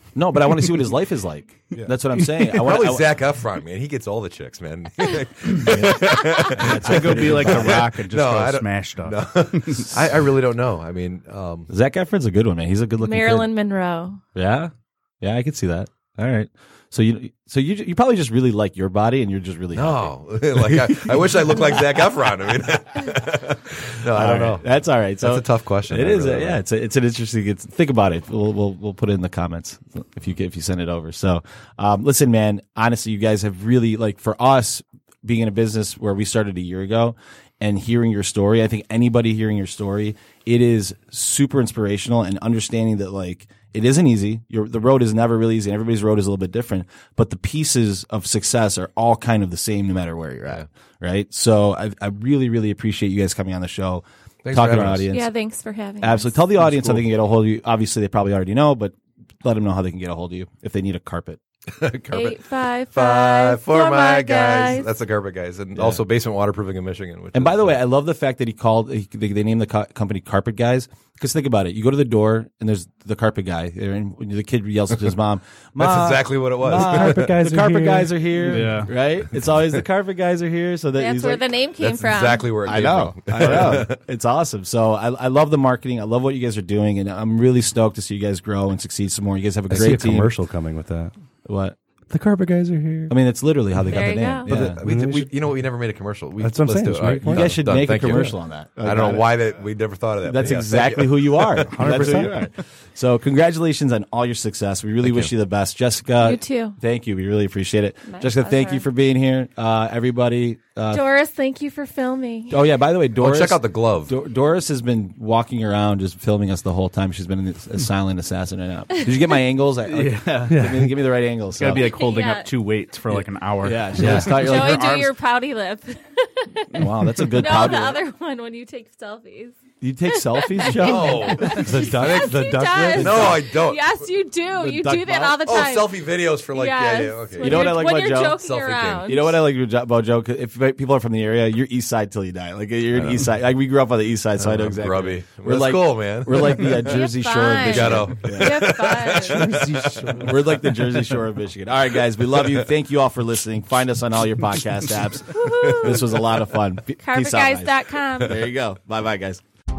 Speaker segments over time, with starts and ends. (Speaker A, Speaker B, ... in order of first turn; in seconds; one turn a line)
Speaker A: 0.1-3.1
Speaker B: 1.8-11.7
Speaker A: 5.6-7.8
Speaker C: 6.2-6.5
Speaker D: 6.7-9.9
Speaker A: 11.7-13.5
Speaker C: 13.0-14.2
Speaker A: 14.3-22.0
Speaker B: 19.7-26.6
Speaker A: 24.1-55.3
Speaker B: 54.4-55.0
Speaker C: 55.1-56.5
Speaker A: 56.0-61.4
Speaker B: 61.7-62.4
Speaker C: 62.1-64.9
Speaker B: 62.9-67.8
Speaker A: 65.7-66.0
Speaker A: 67.3-81.5
Speaker B: 75.8-77.3
Speaker E: 76.7-78.8
Speaker D: 78.5-78.9
Speaker C: 81.0-82.5
Speaker B: 81.8-84.0
Speaker A: 82.7-90.3
Speaker E: 89.7-91.1
Speaker B: 89.7-90.0
Speaker A: 91.5-91.8
Speaker E: 92.1-93.1
Speaker A: 93.1-94.8
Speaker C: 93.9-94.5
Speaker E: 94.5-95.5
Speaker B: 94.5-102.2
Speaker E: 96.4-98.3
Speaker A: 97.3-99.3
Speaker A: 100.2-111.0
Speaker E: 101.7-102.5
Speaker B: 105.0-105.3
Speaker C: 106.2-106.8
Speaker C: 108.0-108.9
Speaker C: 110.9-112.6
Speaker A: 112.5-121.9
Speaker B: 113.2-114.1
Speaker D: 119.9-120.9
Speaker E: 120.5-120.9
Speaker D: 121.5-124.8
Speaker C: 121.9-122.5
Speaker A: 123.1-125.1
Speaker C: 124.3-129.6
Speaker A: 126.7-128.0
Speaker D: 127.2-127.5
Speaker A: 129.8-131.6
Speaker C: 130.1-139.3
Speaker B: 130.7-132.3
Speaker E: 131.4-133.4
Speaker B: 133.0-133.9
Speaker A: 134.5-135.4
Speaker B: 135.4-137.8
Speaker A: 137.4-138.4
Speaker B: 138.3-139.2
Speaker A: 139.1-148.8
Speaker B: 142.9-143.3
Speaker B: 144.4-146.9
Speaker C: 146.7-149.5
Speaker B: 147.6-150.5
Speaker E: 149.7-150.0
Speaker A: 150.0-159.4
Speaker C: 155.3-156.2
Speaker C: 157.0-158.4